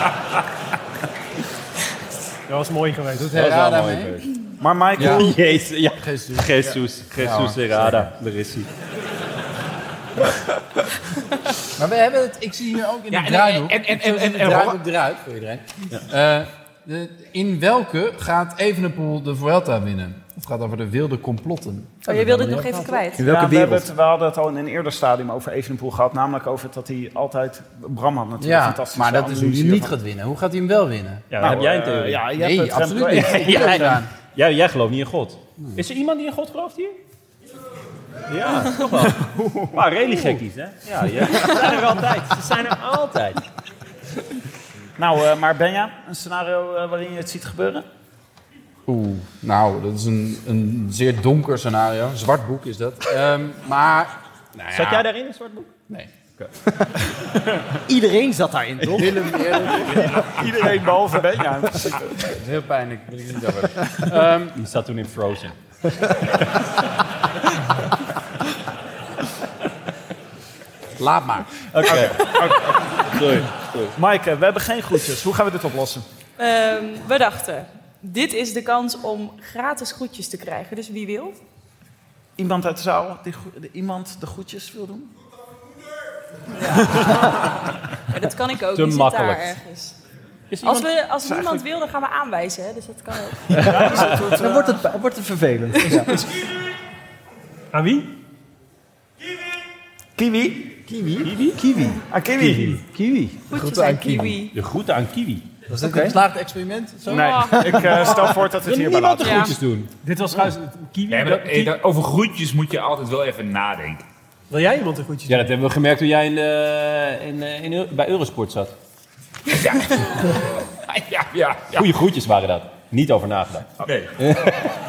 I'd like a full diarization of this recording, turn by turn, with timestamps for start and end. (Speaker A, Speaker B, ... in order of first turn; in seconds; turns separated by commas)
Speaker A: 2.5-3.4, Speaker B: 3.1-4.2, Speaker C: 3.3-8.7, Speaker D: 4.6-5.3, Speaker B: 5.0-5.3, Speaker B: 6.0-8.1, Speaker B: 11.8-22.9, Speaker E: 13.1-14.8, Speaker F: 22.1-23.3, Speaker A: 22.6-23.0, Speaker G: 23.2-23.8, Speaker D: 23.2-29.9, Speaker C: 23.3-23.8, Speaker B: 28.4-31.5, Speaker C: 31.3-32.3, Speaker D: 31.4-33.9, Speaker B: 32.3-34.1, Speaker C: 32.9-37.0, Speaker C: 38.3-43.4, Speaker D: 39.2-39.9, Speaker D: 45.0-47.9, Speaker B: 48.9-55.0, Speaker C: 54.7-55.8, Speaker B: 55.9-56.1, Speaker D: 57.1-57.6, Speaker G: 57.9-60.1, Speaker B: 58.8-60.3, Speaker D: 59.9-62.3, Speaker B: 62.2-64.5, Speaker C: 64.0-65.5, Speaker B: 71.0-71.7, Speaker C: 71.7-73.9, Speaker D: 71.8-73.2, Speaker D: 74.0-76.0, Speaker F: 76.4-81.4, Speaker D: 82.4-85.1, Speaker D: 86.7-87.0, Speaker F: 88.1-90.0, Speaker C: 88.7-89.6, Speaker C: 90.5-90.9, Speaker F: 90.6-93.6, Speaker D: 91.2-91.6, Speaker C: 93.5-94.4, Speaker G: 93.5-96.3, Speaker D: 93.6-94.8, Speaker F: 95.8-96.1, Speaker A: 96.1-96.3, Speaker A: 97.7-98.1, Speaker D: 100.2-100.9, Speaker G: 100.9-104.3, Speaker C: 101.2-101.6, Speaker D: 102.1-102.8, Speaker F: 103.5-104.5, Speaker C: 104.5-105.5, Speaker B: 105.7-107.8, Speaker G: 105.8-106.2, Speaker D: 107.1-109.5, Speaker F: 107.1-107.8, Speaker G: 107.5-108.2, Speaker C: 108.2-109.9, Speaker F: 109.2-109.6, Speaker A: 110.0-111.8, Speaker E: 111.1-114.0, Speaker A: 114.5-115.5, Speaker C: 115.3-118.7, Speaker E: 119.5-121.9, Speaker C: 121.7-124.6, Speaker E: 123.8-124.6